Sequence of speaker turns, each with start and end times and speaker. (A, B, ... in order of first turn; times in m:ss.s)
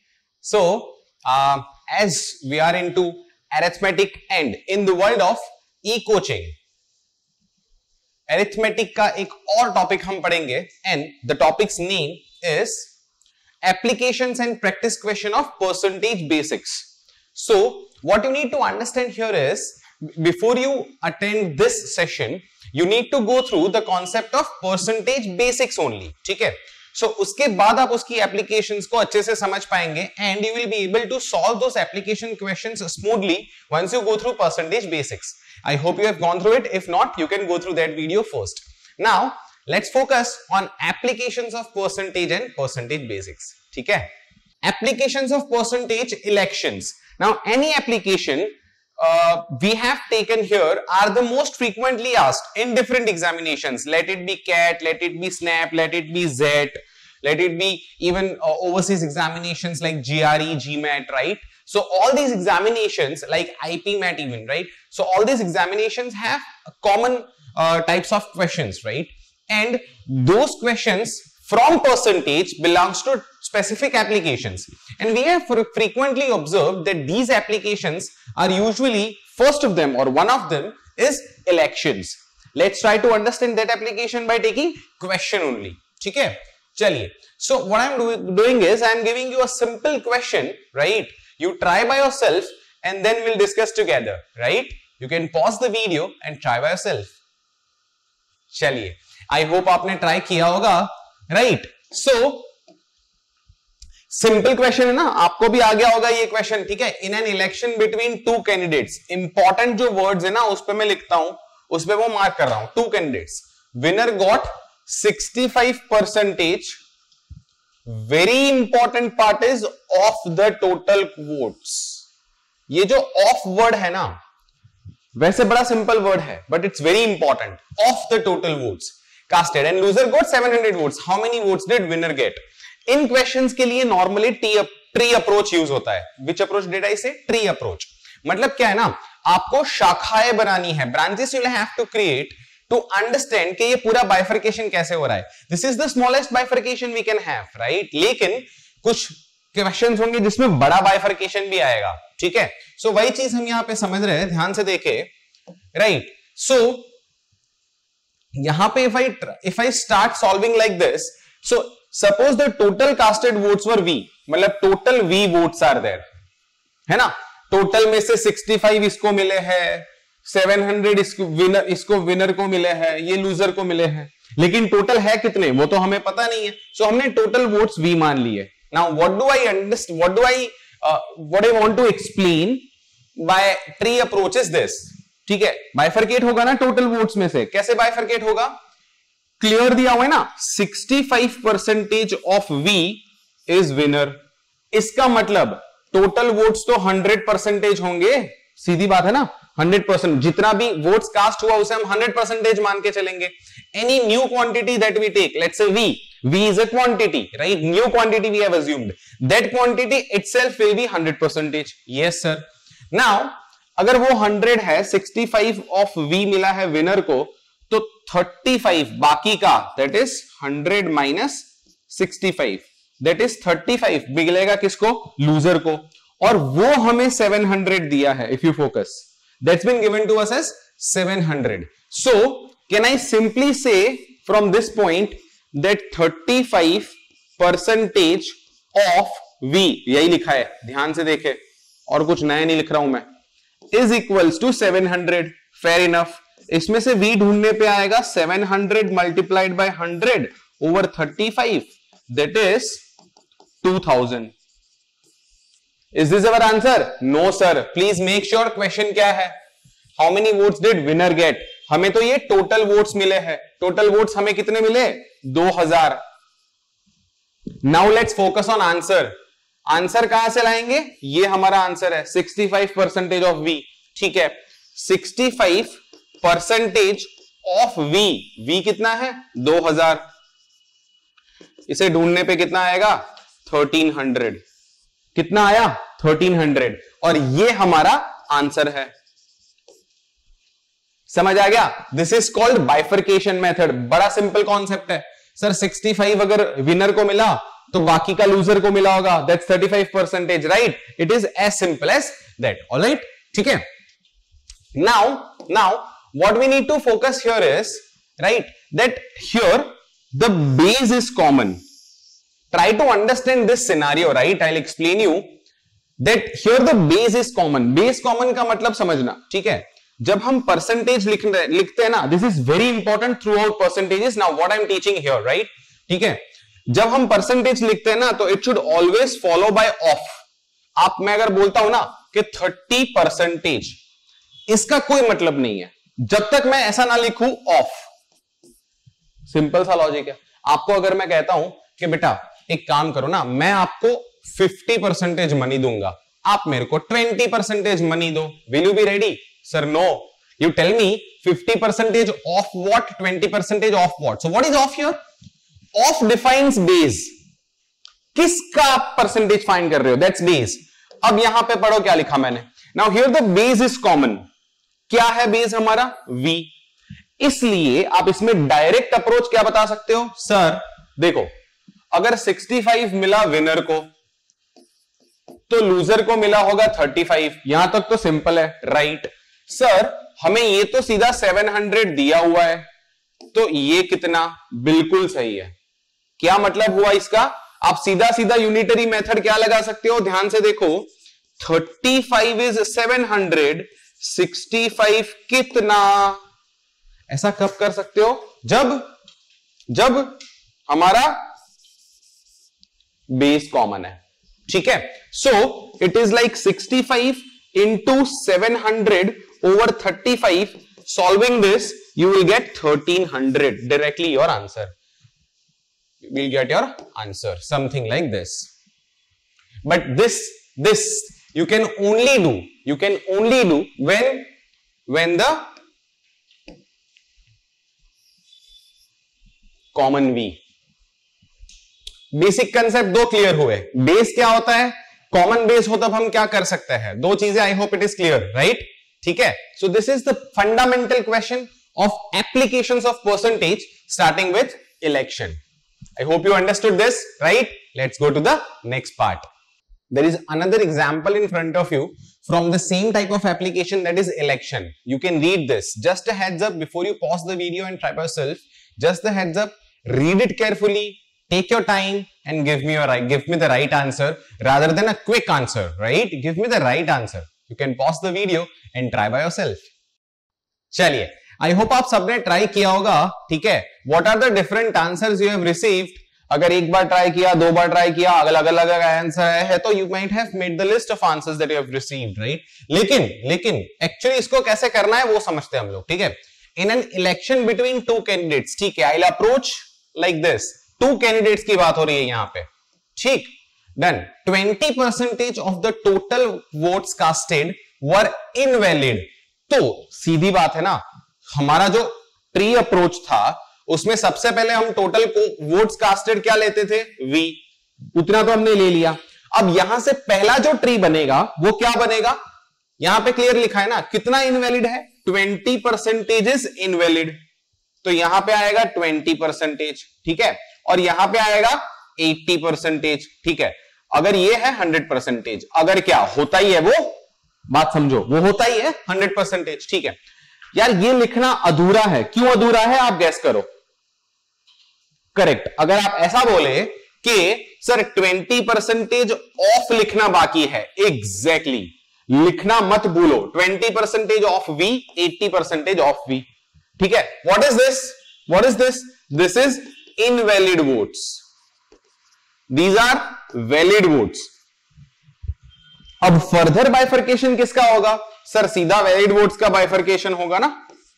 0:00.4-0:06.5 A
0:08.3-0:12.9 A
0:13.6-0:44.1 A
0:44.6-1:37.1 A
1:38.5-1:42.5 A
1:44.1-1:56.8 A
1:57.9-2:02.0 A
2:02.7-2:04.2 A
2:05.1-2:35.1 A
2:35.7-2:36.9 A
2:38.4-2:46.0 A
2:46.9-3:02.6 A
3:03.2-3:08.5 A
3:09.4-3:14.2 A
3:14.7-4:03.0 A
4:03.7-4:12.8 A
4:13.6-4:14.3 A
4:15.9-4:19.3 A
4:20.0-4:26.0 A
4:27.6-4:29.1 A
4:29.7-4:40.0 A
4:41.7-4:44.4 A
4:45.1-4:48.9 A
4:51.1-5:03.6 A
5:04.7-5:11.6 A
5:12.5-5:15.3 A
5:16.0-5:30.2 A
5:30.8-5:33.8 A
5:34.5-5:37.9 A
5:39.3-5:55.0 A
5:55.7-5:57.1 A
5:58.1-6:04.2 A
6:04.9-6:06.5 A
6:07.2-6:11.3 A
6:11.9-6:13.9 A
6:15.5-6:22.7 A
6:23.3-6:25.5 A
6:26.2-6:36.2 A
6:37.1-6:38.9 A
6:39.7-6:41.3 A
6:43.1-6:54.7 A
6:56.0-6:58.5 A
6:59.6-7:04.3 A
7:04.9-7:05.5 A
7:09.7-7:10.4 A
7:12.1-7:25.4 A
7:26.0-7:29.3 A
7:29.9-7:49.7 A
7:50.7-8:27.4 A
8:27.9-8:32.2 A
8:32.8-8:37.2 A
8:37.8-8:47.0 A
8:47.5-8:50.0 A
8:50.5-8:53.5 A
8:55.1-9:06.3 A
9:06.8-9:11.2 A
9:12.5-9:14.3 A
9:16.0-9:20.5 A